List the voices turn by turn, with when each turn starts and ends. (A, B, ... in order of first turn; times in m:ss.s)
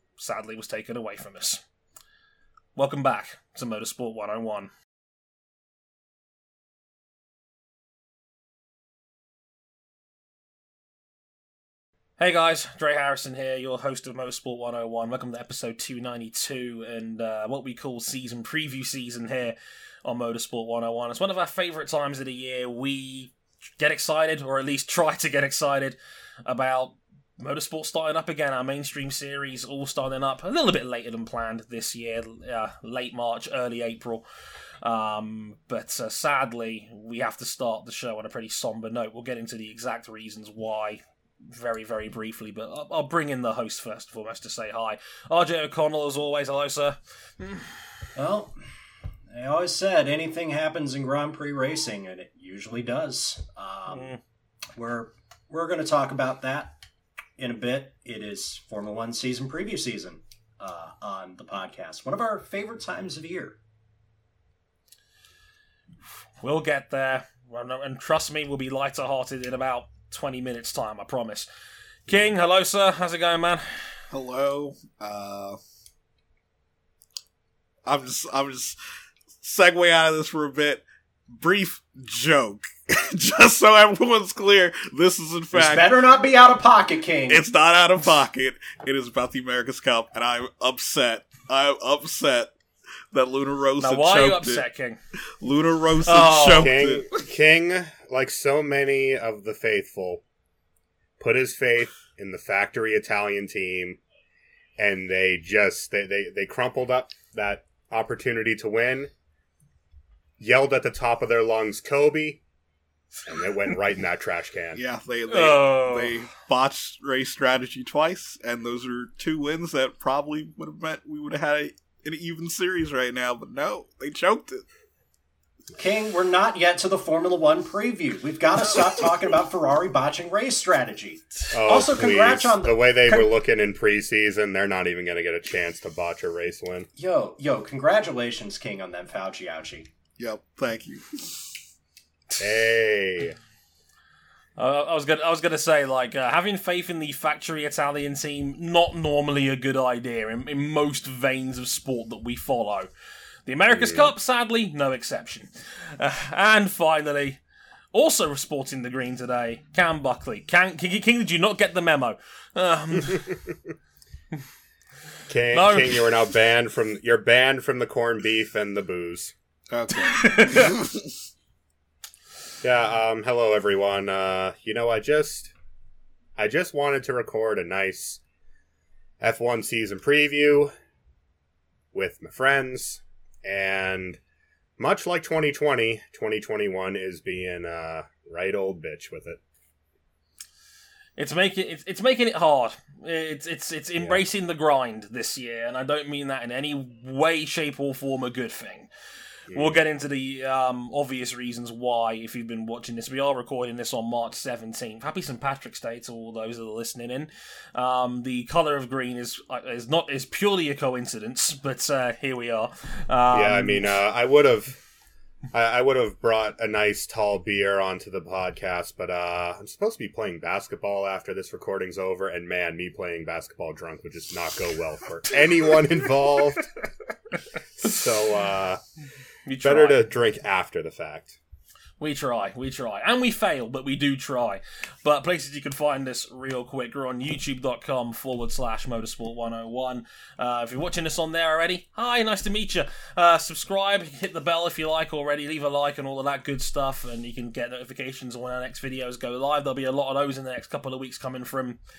0:00.2-0:01.6 A
0:02.8-0:04.7 A
0:12.2-0:34.2 A
0:34.8-0:47.7 A
0:48.2-0:48.6 B
0:49.3-0:54.2 B
0:53.9-0:54.2 A
0:54.8-0:56.8 B
0:57.4-1:03.6 B
1:06.4-1:11.5 A
1:12.1-1:14.0 A
1:14.1-1:15.6 C
1:17.9-1:18.8 C
1:19.4-1:26.0 C
1:25.5-1:27.5 B
1:27.3-1:32.5 C
1:33.1-1:34.6 C
1:33.8-1:35.0 A
1:35.4-1:37.3 C
1:36.0-1:36.7 A
1:36.6-1:40.2 D
1:41.2-1:44.0 D
1:44.8-1:49.1 D
1:50.4-1:52.4 D
1:53.3-1:54.8 D
1:54.8-2:04.7 C
1:55.3-1:56.2 A
2:05.8-2:13.3 B
2:11.5-2:16.9 D
2:17.0-2:19.9 B
2:20.2-2:21.4 C
2:22.4-2:23.4 D
2:24.6-2:32.9 A
2:33.5-2:37.4 A
2:33.7-2:34.1 D
2:37.9-2:43.4 A
2:43.1-2:43.3 D
2:45.3-2:49.4 D
2:45.5-2:46.0 A
2:49.7-2:51.1 C
2:50.0-2:50.7 A
2:52.6-2:55.5 D
2:56.4-2:58.2 D
2:59.2-3:00.7 D
3:01.9-3:04.2 D
3:04.8-3:09.4 D
3:11.2-3:18.9 A
3:19.5-3:19.8 D
3:19.5-3:33.9 A
3:33.3-3:34.8 D
3:35.5-3:46.7 D
3:47.8-3:48.8 D
3:49.5-3:50.0 A
3:49.6-3:51.4 D
3:52.0-4:11.8 A